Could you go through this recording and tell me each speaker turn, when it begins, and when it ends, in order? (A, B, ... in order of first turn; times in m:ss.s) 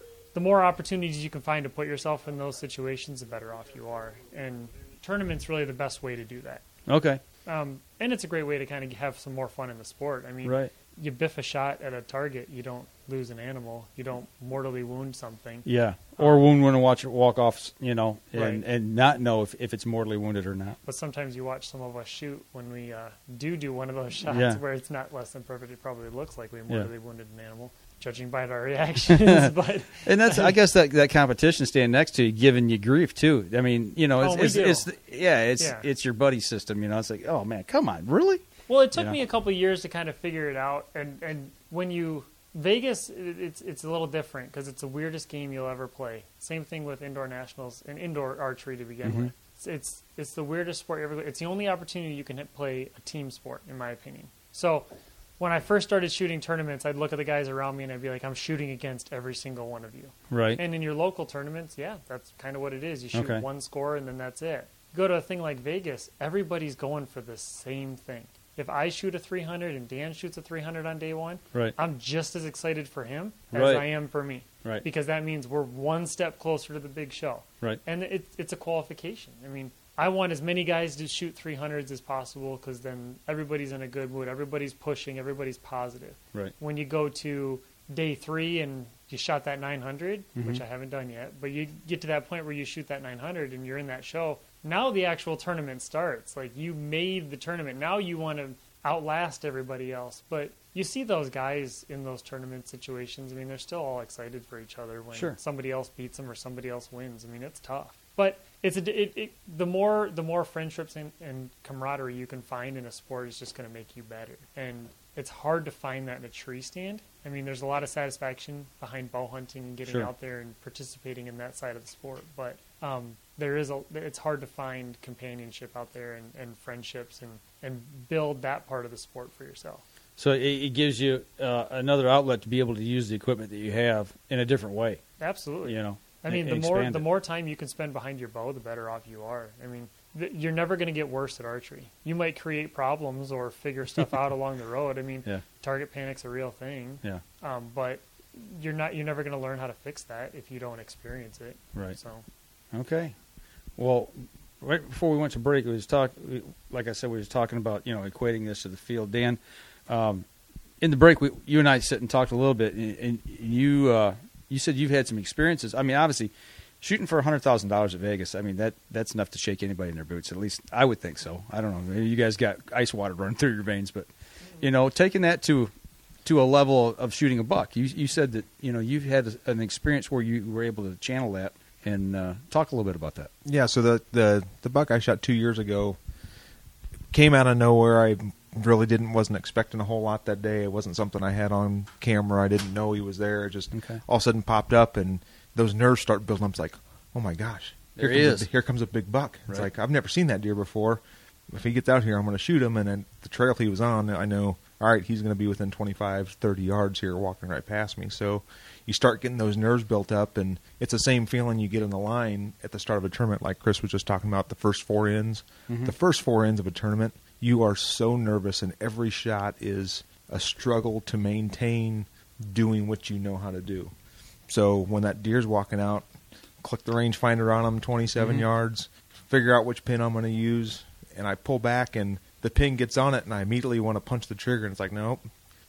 0:00.3-0:06.7 A
0:06.9-0:07.2 B
0:07.5-0:15.6 A
0:10.4-0:10.7 B
0:15.6-0:20.8 B
0:16.2-0:16.5 A
0:18.3-0:18.6 A
0:20.8-0:30.6 A
0:24.3-0:24.6 B
0:29.1-0:38.4 B
0:34.2-0:34.9 A
0:35.6-0:35.9 A
0:38.7-0:54.9 A
0:49.0-0:49.3 B
0:55.4-2:09.8 A
1:00.3-1:00.6 B
1:03.1-1:03.4 B
1:13.5-1:13.9 B
1:30.4-1:30.6 B
1:45.1-1:45.4 B
1:59.9-2:00.1 B
2:10.2-2:15.0 B
2:15.2-2:32.2 A
2:15.6-2:17.1 B
2:32.7-2:33.2 B
2:33.8-2:40.3 B
2:40.8-2:55.7 B
2:56.2-3:03.3 B
3:03.4-3:06.0 C
3:07.1-3:43.9 C
3:13.7-3:14.0 B
3:18.0-3:18.5 B
3:35.7-3:36.0 B
3:44.5-3:46.1 C
3:46.6-3:55.2 C
3:48.2-3:48.4 B